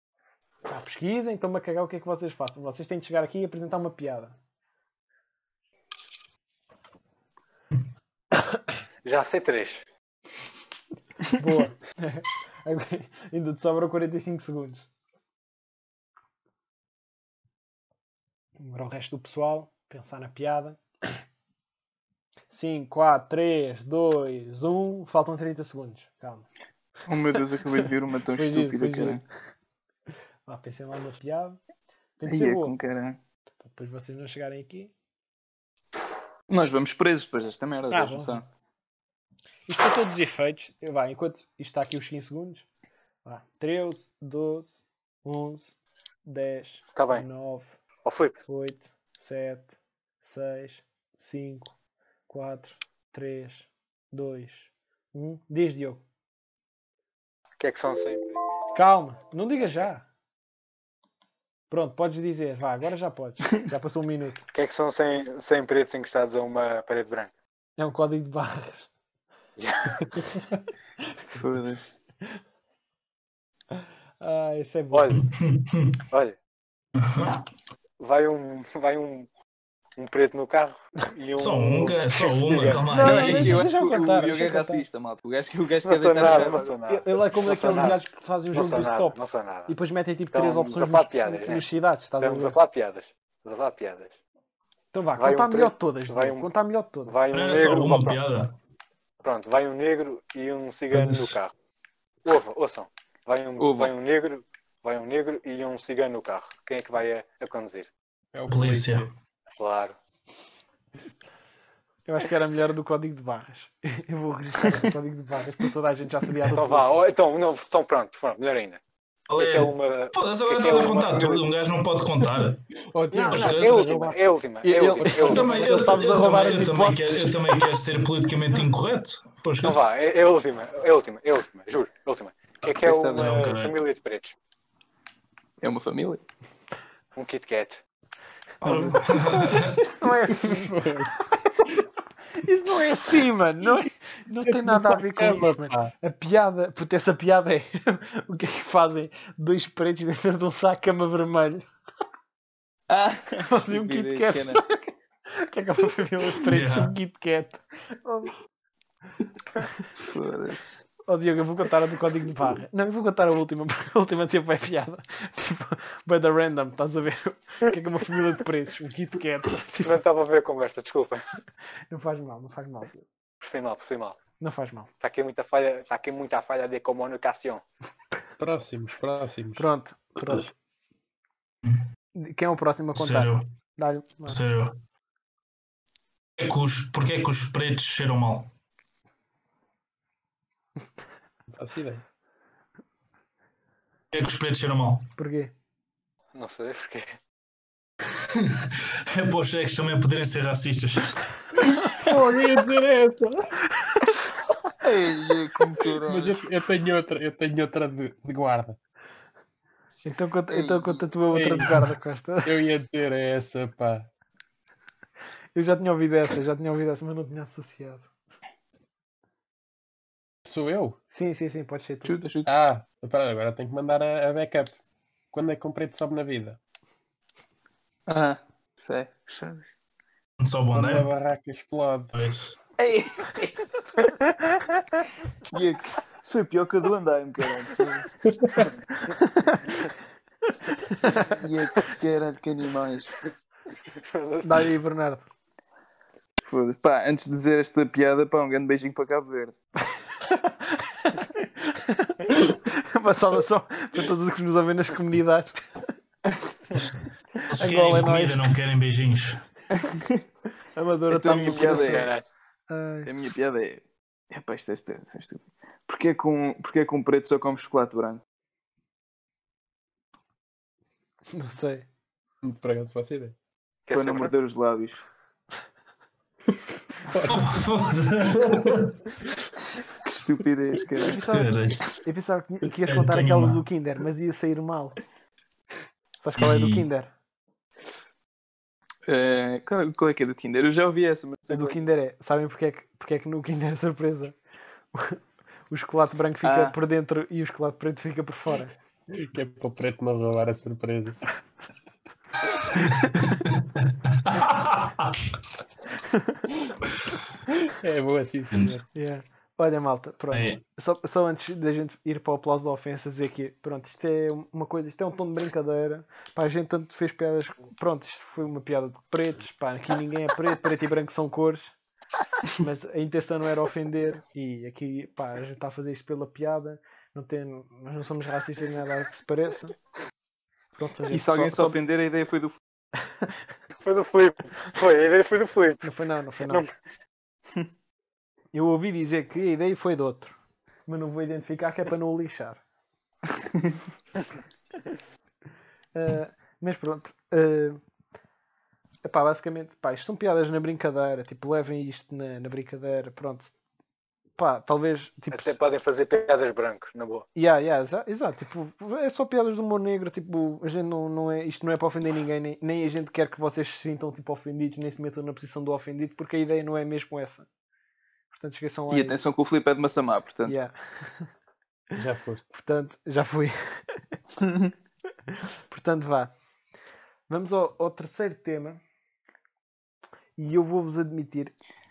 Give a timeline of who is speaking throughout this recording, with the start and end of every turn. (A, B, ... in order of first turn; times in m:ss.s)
0:00.7-0:04.4 A
0:09.0-0:09.8 B
0:11.3-0:14.8 A
0:18.6-0:21.2 A
0:22.5-0:26.4 A
0:27.1-0:29.2 C
0:27.8-0:29.2 A
0:30.5-0:31.6 A
0:32.2-0:32.7 A
0:32.2-0:33.2 C
0:33.6-0:34.9 A
0:36.5-0:38.4 C
0:37.9-0:38.4 A
0:39.7-0:42.6 A
0:43.2-0:47.8 A
0:46.9-0:47.2 B
0:48.0-0:48.3 B
0:48.5-0:51.7 A
0:52.3-0:56.0 A
0:57.6-0:58.8 B
0:58.7-1:00.0 A
1:01.7-1:04.5 A
1:04.5-1:07.3 B
1:07.8-1:08.9 A
1:09.6-1:10.1 B
1:11.3-1:12.0 C
1:14.2-1:15.0 A
1:14.9-1:15.2 B
1:15.1-1:16.0 D
1:16.1-1:16.4 B
1:17.0-1:17.4 D
1:18.0-1:19.3 B
1:20.0-1:22.8 B
1:21.4-1:23.7 D
1:22.9-1:24.8 A
1:23.0-1:26.7 C
1:25.8-1:28.0 B
1:26.9-1:32.6 A
1:28.5-1:29.7 B
1:30.3-1:31.6 B
1:32.2-1:34.2 B
1:34.9-1:37.2 A
1:35.2-1:36.5 B
1:37.0-1:38.2 B
1:37.3-1:38.6 D
1:39.2-1:41.5 B
1:40.9-1:41.4 D
1:42.2-1:47.9 B
1:43.6-1:43.9 C
1:48.3-1:49.1 E
1:48.5-1:49.1 D
1:49.6-1:50.0 B
1:52.0-1:57.0 A
1:56.4-1:58.8 B
1:59.3-2:02.6 D
1:59.4-2:01.4 B
2:02.7-2:04.2 E
2:03.1-2:03.6 A
2:03.3-2:03.9 D
2:03.3-2:05.8 B
2:04.6-2:07.4 A
2:05.0-2:05.5 E
2:05.2-2:09.9 D
2:09.6-2:14.4 B
2:12.8-2:13.5 C
2:12.9-2:13.8 D
2:15.6-2:16.2 C
2:17.1-2:17.8 B
2:18.6-2:19.8 D
2:18.6-2:18.9 E
2:19.3-2:21.7 A
2:20.3-2:21.1 E
2:22.4-2:31.7 A
2:24.4-2:25.9 E
2:32.9-2:34.6 C
2:33.5-2:38.3 A
2:36.5-2:36.9 D
2:40.0-2:40.8 C
2:41.1-2:50.0 A
2:49.8-2:51.2 B
2:51.9-2:53.0 A
2:53.4-2:54.2 B
2:54.4-2:54.9 A
2:55.0-2:57.6 B
2:58.4-2:59.6 E
2:59.6-3:00.5 A
3:02.1-3:04.4 A
3:02.9-3:03.4 D
3:04.3-3:04.7 D
3:06.4-3:08.5 D
3:11.5-3:12.0 E
3:14.1-3:15.1 D
3:15.2-3:15.5 A
3:16.3-3:17.1 B
3:18.3-3:21.2 D
3:22.0-3:23.5 E
3:24.8-3:26.4 C
3:26.0-3:28.8 E
3:30.0-3:32.5 A
3:30.5-3:31.1 C
3:31.3-3:31.8 E
3:32.4-3:34.1 E
3:35.5-3:38.1 A
3:40.4-3:41.0 E
3:41.1-3:42.1 A
3:42.0-3:42.5 C
3:42.4-3:44.8 E
3:45.3-3:46.6 E
3:48.1-3:49.6 C
3:50.4-3:51.1 D
3:50.7-3:52.1 E
3:52.1-3:52.6 D
3:52.8-3:53.5 C
3:55.5-3:58.0 C
3:58.4-3:58.7 E
3:59.2-3:59.8 A
4:00.7-4:01.3 A
4:01.3-4:03.2 C
4:04.0-4:04.7 B
4:04.4-4:05.3 A
4:06.4-4:09.5 C
4:10.2-4:15.6 A
4:17.5-4:19.4 D
4:17.5-4:18.5 A
4:19.7-4:20.2 C
4:20.8-4:22.1 A
4:21.1-4:22.1 C
4:21.3-4:22.2 B
4:22.7-4:23.1 A
4:23.0-4:28.2 C
4:31.3-4:31.8 A
4:32.4-4:33.4 E
4:33.9-4:34.3 B
4:33.9-4:35.0 C
4:36.5-4:37.7 E
4:37.3-4:38.9 D
4:38.3-4:38.8 E
4:40.0-4:41.2 C
4:41.0-4:45.0 A
4:41.2-4:41.8 D
4:42.9-4:43.6 D
4:46.2-4:47.1 A
4:46.4-4:46.9 D
4:49.1-4:51.8 C
4:51.5-4:54.4 A
4:54.9-4:55.2 A
4:55.7-4:58.7 A
4:56.4-4:56.7 C
4:59.1-5:01.2 E
5:02.8-5:05.2 D
5:07.8-5:08.8 E
5:08.5-5:08.8 D
5:08.9-5:21.7 A
5:10.3-5:10.6 D
5:22.5-5:29.7 A
5:30.8-5:31.8 A
5:31.1-5:32.6 C
5:33.8-5:35.8 B
5:35.8-5:36.6 A
5:38.5-5:40.3 A
5:40.9-5:42.6 A
5:45.9-5:47.8 A
5:49.0-5:53.5 A
5:54.4-5:55.6 A
5:55.3-5:57.2 B
5:57.3-6:07.5 A
6:08.3-6:09.2 A
6:08.9-6:10.6 C
6:10.4-6:11.3 A
6:12.0-6:12.4 E
6:12.5-6:13.5 A
6:14.4-6:14.7 C
6:15.7-6:16.3 A
6:17.3-6:18.8 A
6:20.4-6:21.5 A